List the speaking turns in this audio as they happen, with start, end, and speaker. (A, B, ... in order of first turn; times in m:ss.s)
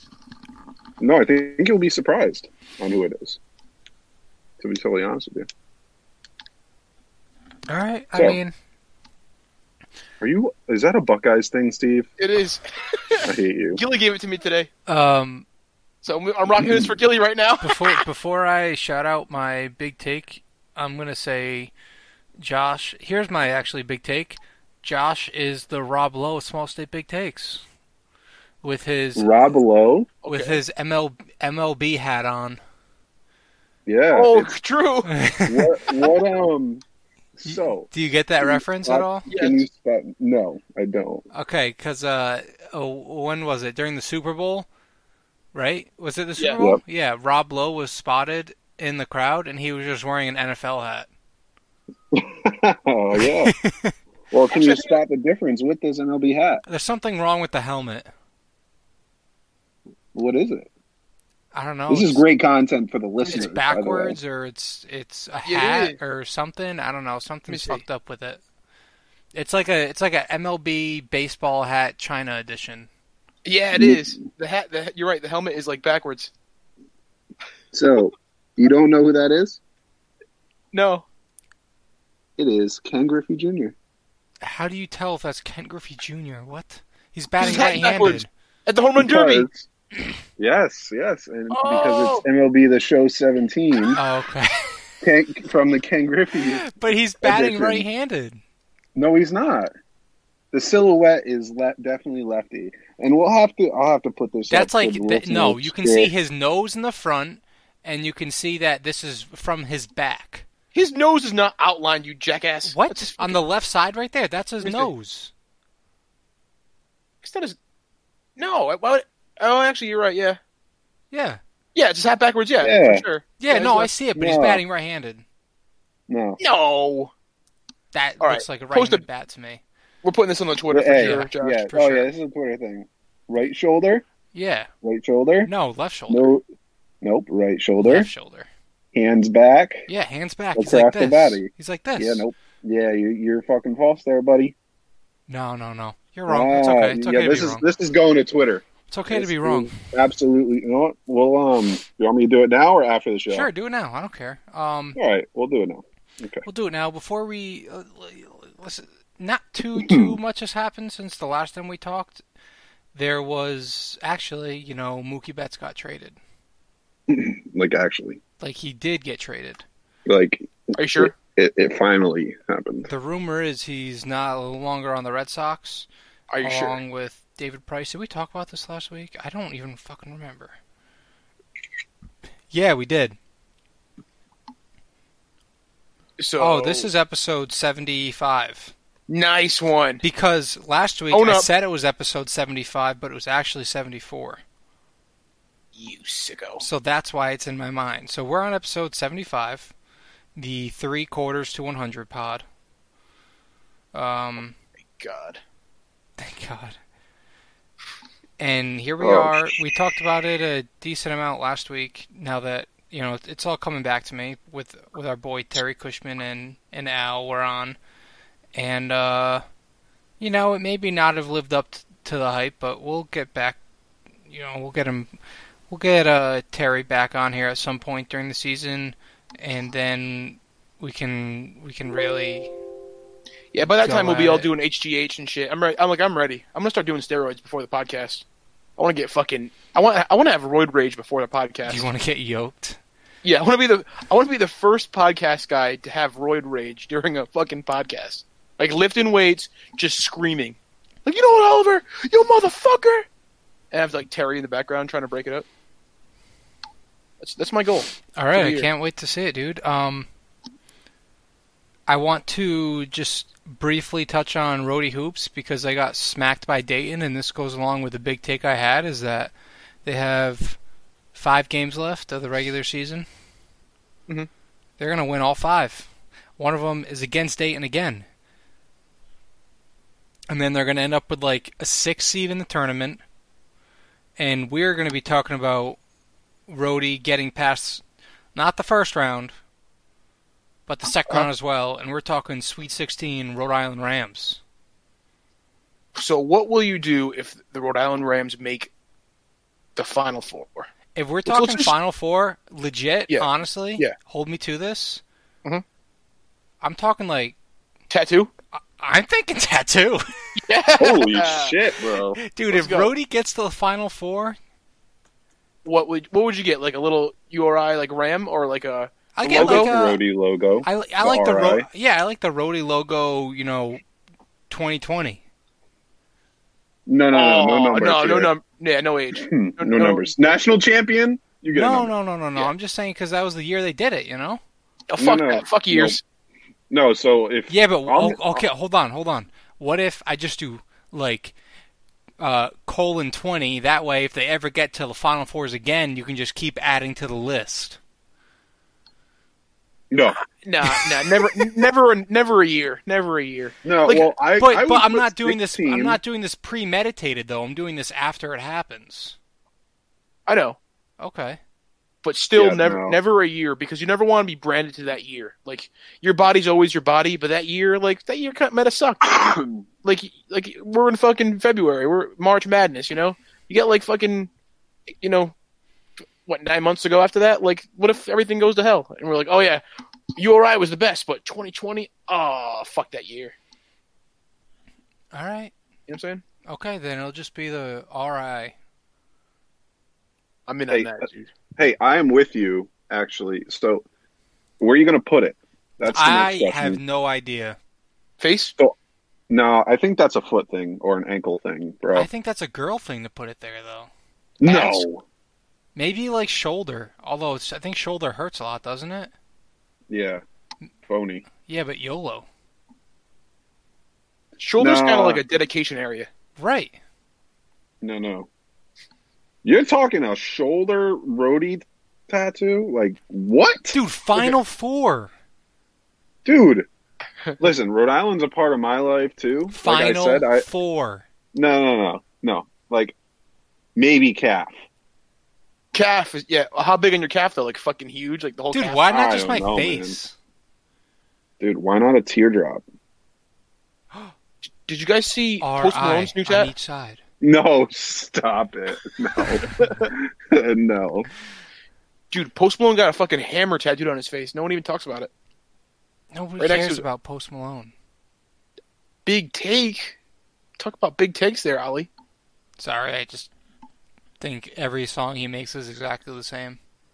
0:01.0-0:03.4 A
0:04.6-0:05.5 A
0:07.7-0:08.5 B
0:08.1-0:08.4 A
0:10.2-0:12.1 A
0:12.2-0:14.7 C
0:13.2-0:13.8 A
0:14.9-0:15.4 B
0:16.0-0:18.0 C
0:16.6-0:16.9 A
0:17.6-0:21.7 B
0:22.4-0:27.6 B
0:28.6-0:29.4 B
0:29.2-0:30.1 A
0:30.2-0:30.6 C
0:30.3-0:32.6 B
0:33.9-0:34.5 A
0:34.1-0:35.1 C
0:35.1-0:36.0 B
0:35.5-0:36.8 A
0:37.4-0:37.9 A
0:37.4-0:39.3 B
0:38.4-0:41.2 A
0:39.3-0:39.6 C
0:41.3-0:44.7 B
0:45.5-0:51.1 B
0:52.1-0:53.5 A
0:53.1-0:54.0 B
0:54.3-0:56.6 A
0:54.5-0:55.0 C
0:56.7-0:58.1 B
1:00.1-1:00.7 A
1:01.5-1:02.2 B
1:01.9-1:04.2 A
1:03.2-1:08.4 B
1:05.5-1:06.0 C
1:07.5-1:07.8 C
1:09.3-1:12.9 B
1:13.4-1:16.3 C
1:13.8-1:14.0 A
1:17.7-1:19.6 A
1:20.7-1:21.0 C
1:22.4-1:23.8 A
1:24.4-1:28.3 B
1:27.4-1:29.5 C
1:29.0-1:29.7 A
1:30.4-1:34.0 A
1:31.5-1:32.2 C
1:34.0-1:34.8 B
1:35.0-1:37.9 A
1:36.4-1:38.4 B
1:39.0-1:39.7 A
1:40.5-1:46.1 A
1:44.5-1:50.4 B
1:50.7-1:53.4 C
1:52.7-1:55.3 B
1:54.6-1:54.9 C
1:57.2-1:57.6 C
1:58.4-2:00.4 C
2:01.1-2:01.4 B
2:01.8-2:03.9 C
2:02.6-2:03.0 A
2:03.4-2:05.2 B
2:04.2-2:04.6 A
2:06.1-2:06.4 A
2:06.4-2:07.1 C
2:07.9-2:09.6 B
2:08.2-2:09.0 C
2:10.0-2:11.7 C
2:10.7-2:14.0 A
2:11.0-2:12.1 B
2:14.3-2:14.7 B
2:14.8-2:15.5 A
2:15.4-2:16.4 B
2:16.1-2:16.4 A
2:17.0-2:18.1 A
2:17.8-2:18.5 B
2:18.9-2:19.9 A
2:19.9-2:22.2 B
2:20.6-2:24.6 A
2:25.3-2:27.6 B
2:26.3-2:33.5 A
2:28.9-2:29.7 B
2:33.3-2:35.0 B
2:35.0-2:36.4 A
2:36.4-2:42.2 B
2:39.8-2:40.2 A
2:42.9-2:46.2 B
2:47.1-2:48.2 A
2:48.4-2:49.6 B
2:50.1-2:52.9 A
2:50.8-2:51.2 C
2:52.9-2:55.9 B
2:56.3-2:56.8 C
2:56.4-3:00.6 B
3:02.5-3:03.2 B
3:06.2-3:06.9 C
3:06.4-3:08.7 B
3:09.1-3:10.0 C
3:10.0-3:14.4 B
3:11.1-3:11.5 C
3:15.8-3:16.6 C
3:16.6-3:19.7 B
3:20.4-3:22.4 B
3:23.9-3:24.6 B
3:25.0-3:25.4 C
3:26.2-3:26.8 B
3:28.4-3:37.8 B
3:29.0-3:29.4 A
3:38.5-3:39.4 B
3:40.2-3:43.6 B
3:44.3-3:45.1 B
3:45.7-3:52.5 B
3:53.5-3:58.2 C
3:53.8-3:54.5 B
3:58.8-4:01.9 C
4:01.7-4:02.8 B
4:03.2-4:13.1 C
4:13.7-4:15.5 C
4:17.2-4:18.7 C
4:18.2-4:20.1 B
4:21.9-4:29.3 B
4:29.8-4:30.6 B
4:31.1-4:33.1 B
4:34.8-4:38.1 B
4:40.3-4:43.0 B
4:44.2-4:45.8 B
4:46.5-4:47.8 B
4:48.4-4:49.4 B
4:50.7-4:54.4 B
4:56.0-4:58.7 C
4:59.8-5:00.7 C
5:01.0-5:05.0 B
5:01.3-5:01.7 C
5:03.1-5:03.9 C
5:06.6-5:07.4 B
5:07.9-5:08.3 C
5:08.6-5:10.1 B
5:10.4-5:11.6 C
5:10.8-5:12.2 A
5:12.2-5:14.4 B
5:12.5-5:12.9 C
5:15.6-5:19.7 C
5:19.2-5:20.0 B
5:19.3-5:21.7 A
5:20.6-5:23.8 B
5:24.5-5:25.2 B
5:26.9-5:28.3 A
5:27.1-5:30.2 C
5:29.1-5:31.9 A
5:31.5-5:34.4 B
5:34.9-5:36.0 C
5:35.0-5:36.0 A
5:36.7-5:38.4 A
5:37.5-5:41.4 B
5:42.2-5:47.8 B
5:49.9-5:50.2 A
5:50.4-5:54.1 C
5:53.6-5:56.0 A
5:54.4-5:59.2 B
6:00.3-6:00.6 C
6:01.0-6:01.4 B
6:02.0-6:09.2 C
6:02.4-6:03.0 A
6:09.0-6:09.6 A
6:09.8-6:14.3 C
6:15.0-6:15.3 C
6:16.3-6:19.6 C
6:20.2-6:23.4 C
6:25.1-6:25.5 B
6:25.9-6:26.2 C
6:26.5-6:28.6 B
6:30.5-6:31.3 C
6:31.6-6:33.8 A
6:34.6-6:36.8 A
6:35.9-6:37.6 B
6:38.2-6:38.5 C
6:39.3-6:42.1 A
6:41.9-6:43.9 B
6:44.4-6:45.0 A
6:44.4-6:44.8 C
6:45.8-6:49.1 B
6:49.9-6:50.2 A
6:50.9-6:51.2 A
6:51.5-6:52.3 B
6:54.4-6:56.1 C
6:54.6-6:55.2 A
6:56.4-6:56.8 B
6:57.8-6:58.3 A
6:59.4-7:04.3 A
7:03.7-7:05.1 B
7:06.2-7:06.7 A
7:07.4-7:10.4 A
7:09.5-7:11.0 B
7:11.3-7:13.0 A
7:13.8-7:14.5 A
7:15.7-7:18.9 C
7:18.5-7:20.2 B
7:18.9-7:20.0 A
7:21.4-7:22.6 A
7:24.7-7:26.5 C
7:25.4-7:27.0 B
7:27.2-7:31.1 A
7:29.5-7:29.8 C
7:32.1-7:35.1 C
7:36.1-7:37.7 B
7:36.4-7:36.8 C
7:39.1-7:40.0 C
7:40.6-7:41.9 C
7:42.6-7:43.3 B
7:44.2-7:46.6 B